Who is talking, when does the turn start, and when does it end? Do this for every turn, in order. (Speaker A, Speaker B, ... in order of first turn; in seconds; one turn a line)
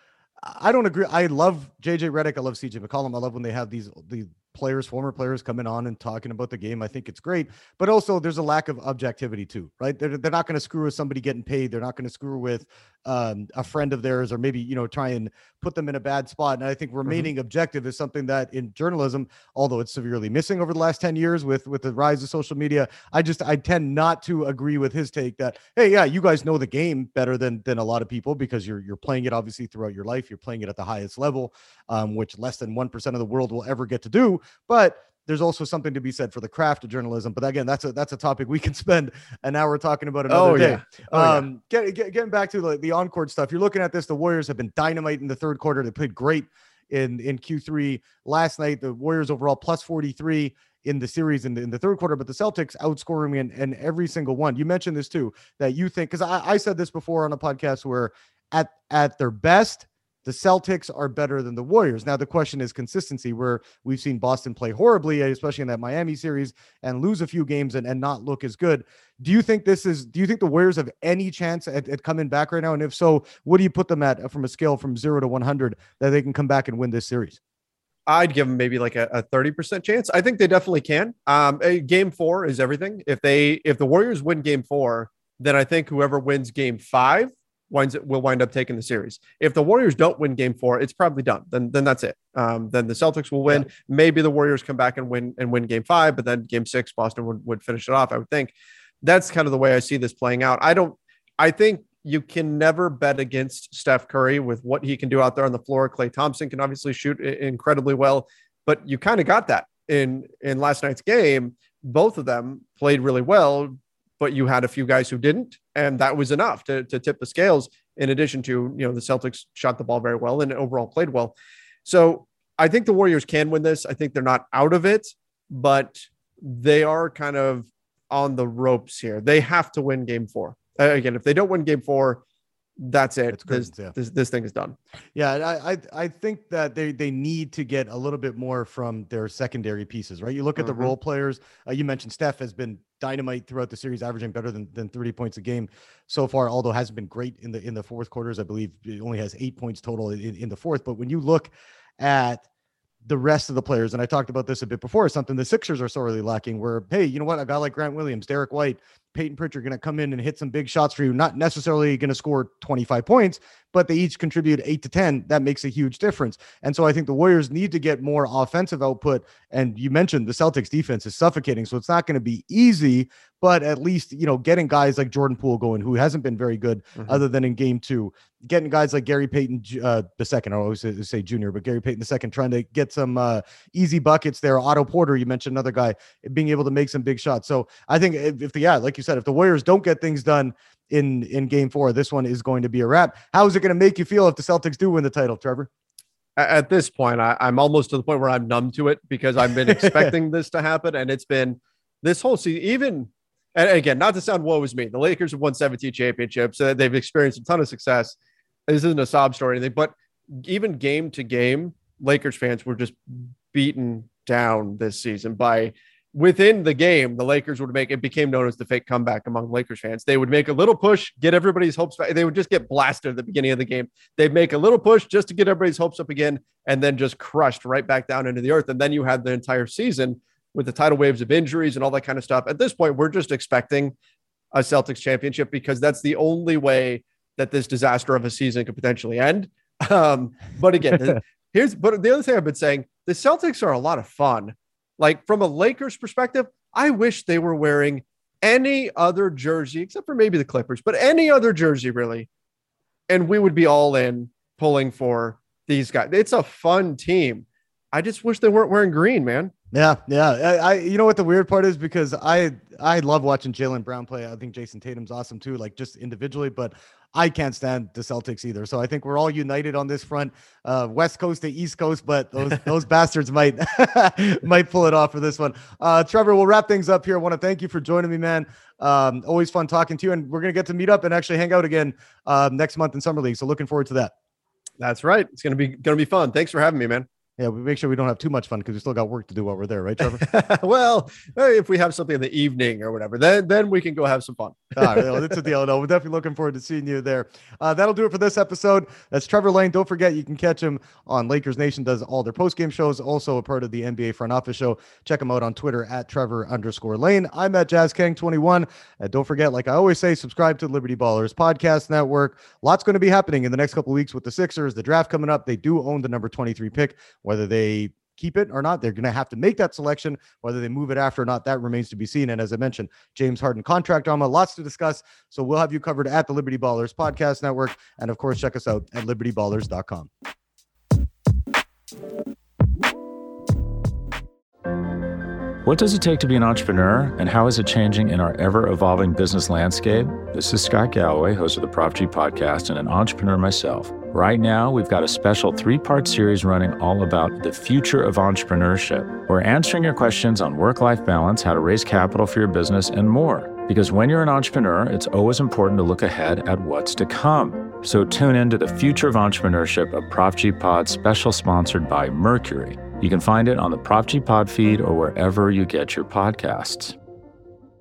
Speaker A: 0.4-77.4
Speaker B: 40.3-41.5
Speaker B: 78.1-98.5
Speaker B: 99.0-132.2
Speaker B: 132.8-134.8
Speaker A: 133.3-133.9
Speaker A: 135.1-152.4
Speaker B: 140.6-140.9
Speaker A: 153.0-195.7
Speaker B: 177.0-177.2
Speaker B: 196.4-208.1
Speaker A: 199.6-200.1
Speaker B: 208.7-233.9
Speaker B: 234.5-252.3
Speaker B: 253.1-259.5
Speaker A: 259.7-284.1
Speaker B: 284.8-287.1
Speaker A: 287.4-290.2
Speaker B: 290.1-295.2
Speaker A: 294.8-330.1
Speaker C: 335.6-366.9